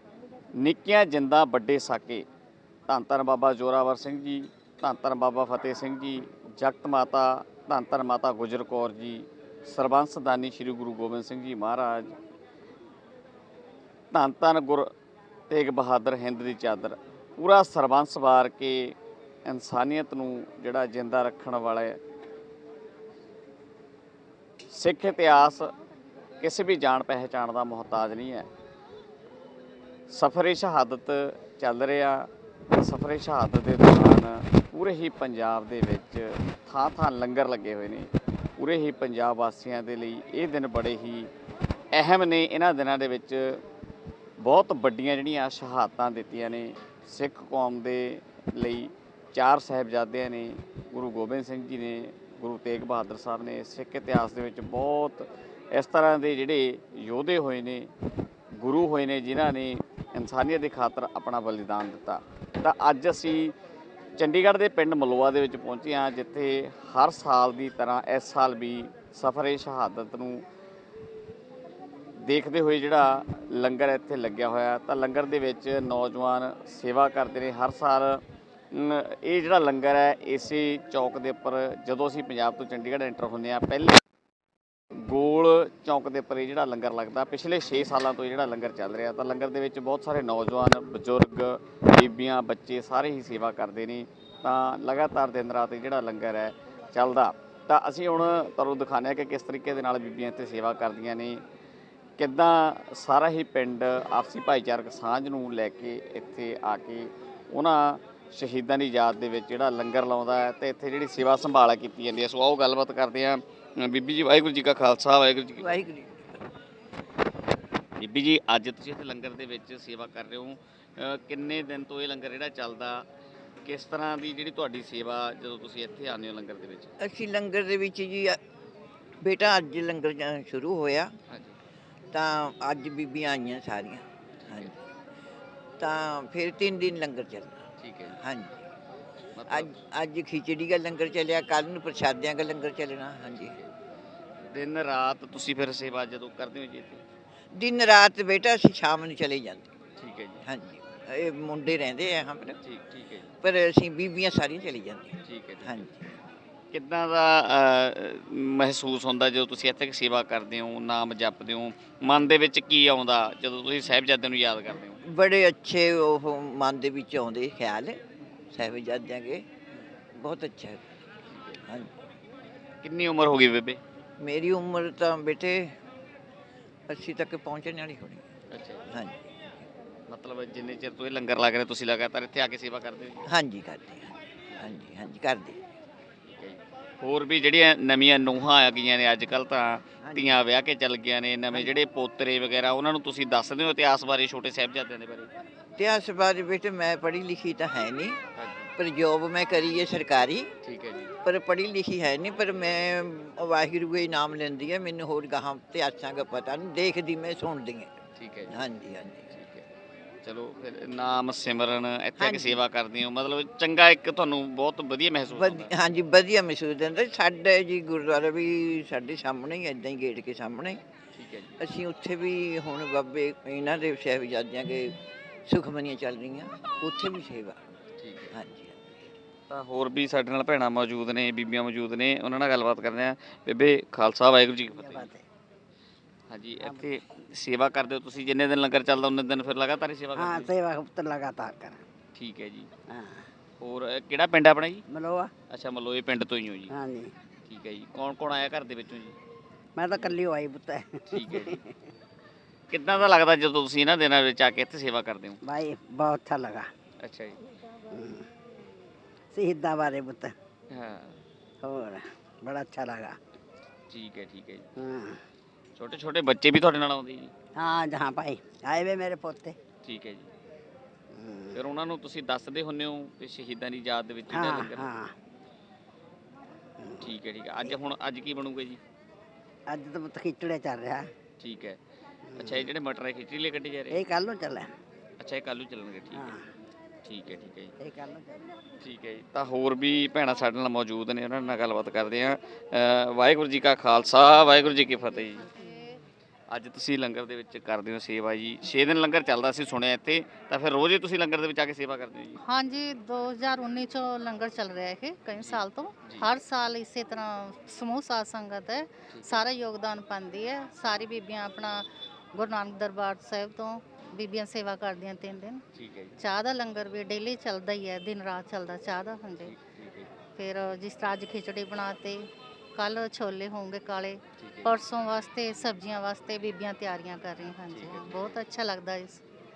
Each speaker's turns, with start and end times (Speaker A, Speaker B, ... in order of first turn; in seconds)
Speaker A: 0.6-2.2, 2.9-12.2, 14.1-14.9, 15.5-22.0, 24.7-25.7, 26.4-28.5, 30.1-41.3, 41.9-43.6, 44.4-57.9, 58.5-63.5, 64.2-70.5, 72.2-84.0, 84.9-101.4, 102.2-115.8, 118.0-123.0, 123.6-126.9, 131.3-131.6, 134.4-134.7, 137.8-138.2, 139.3-139.7, 143.3-143.7, 144.4-147.0, 150.0-150.4, 152.6-153.3, 155.2-155.8, 156.7-165.0, 171.3-171.7, 172.8-173.8, 178.5-178.8, 180.1-183.3, 186.2-195.3, 198.3-198.7, 200.6-201.1, 208.2-208.6, 209.3-209.7, 210.2-215.7, 221.2-221.6, 228.0-228.4, 229.5-235.1, 236.3-240.5, 242.1-242.7, 243.6-244.8, 245.5-246.7, 247.4-249.2, 251.1-251.6, 252.7-255.4, 257.0-257.4, 260.7-261.2, 263.9-264.7, 265.8-267.3, 269.8-270.3, 271.5-274.9, 277.0-278.8, 281.4-281.8, 282.4-284.0, 285.2-286.3, 287.0-287.7, 288.8-295.4, 296.5-302.4, 305.4-306.3, 309.1-309.4, 315.7-316.2, 319.4-320.1, 324.4-324.8, 327.7-328.4
Speaker B: 115.6-116.4, 127.0-128.4, 129.2-131.1, 132.1-134.8, 135.8-138.7, 139.5-143.5, 147.5-149.7, 150.4-152.6, 153.4-156.2, 165.0-169.4, 170.1-170.9, 171.6-171.9, 174.2-175.7, 176.9-178.2, 178.9-179.5, 183.2-185.6, 190.0-190.3, 195.8-198.2, 198.8-200.5, 201.2-207.9, 208.5-209.3, 212.2-212.6, 215.3-220.8, 221.6-227.6, 228.3-229.0
Speaker C: 234.7-235.2, 236.6-236.9, 240.1-241.8, 242.9-243.2, 244.9-245.3, 246.7-247.1, 249.8-251.8, 255.4-256.7, 257.9-258.3, 259.3-260.3, 261.6-263.2, 264.8-265.2, 267.6-269.6, 271.1-271.6, 274.3-275.1, 276.8-277.1, 279.7-281.1, 282.3-282.7, 283.9-284.7, 286.1-286.4, 287.8-288.4
Speaker D: 295.5-296.0, 302.4-315.6, 316.2-319.5, 320.4-329.2